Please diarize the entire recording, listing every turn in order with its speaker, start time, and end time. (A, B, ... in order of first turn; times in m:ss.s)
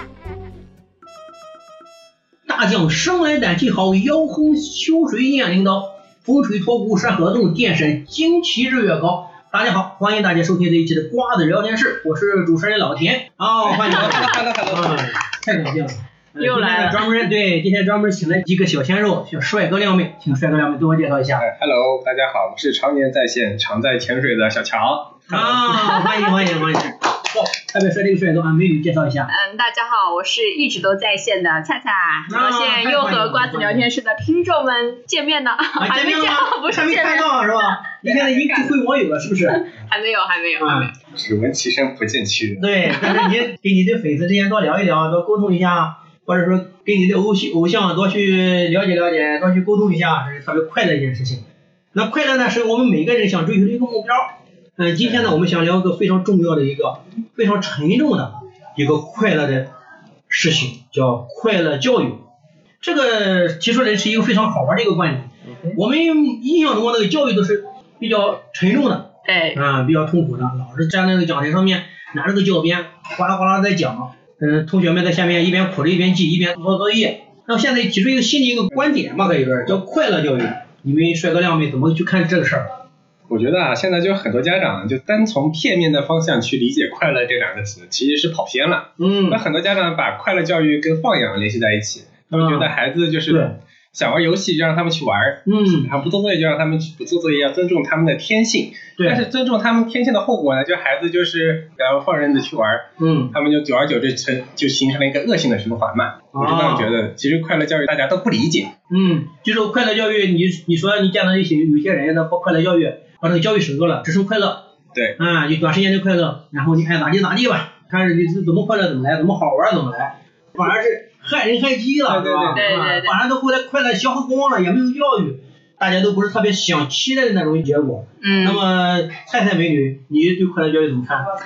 0:02.5-0:21.4 A
0:13.6-0:15.2 B
0:16.4-0:17.2 C
0:21.4-0:25.7 B
0:25.3-0:29.3 A
0:25.9-0:26.5 C
0:29.3-0:38.8 C
0:32.3-0:33.9 A
0:35.8-0:39.6 A
0:39.5-0:40.9 C
0:40.6-0:40.9 A
0:41.1-0:42.7 B
0:42.6-0:51.4 A
0:42.9-0:43.3 C
0:51.9-0:59.7 A
0:55.0-0:55.3 B
1:00.3-1:02.2 A
1:02.8-1:22.7 A
1:09.2-1:09.6 C
1:23.3-1:48.7 B
1:29.0-1:29.4 A
1:32.3-1:32.7 A
1:35.5-1:35.9 A
1:39.0-1:39.2 A
1:43.0-1:43.4 A
1:46.3-1:46.9 A
1:48.9-1:54.6 A
1:55.2-2:11.3 A
2:02.1-2:02.7 B
2:02.6-2:03.1 C
2:08.2-2:08.6 C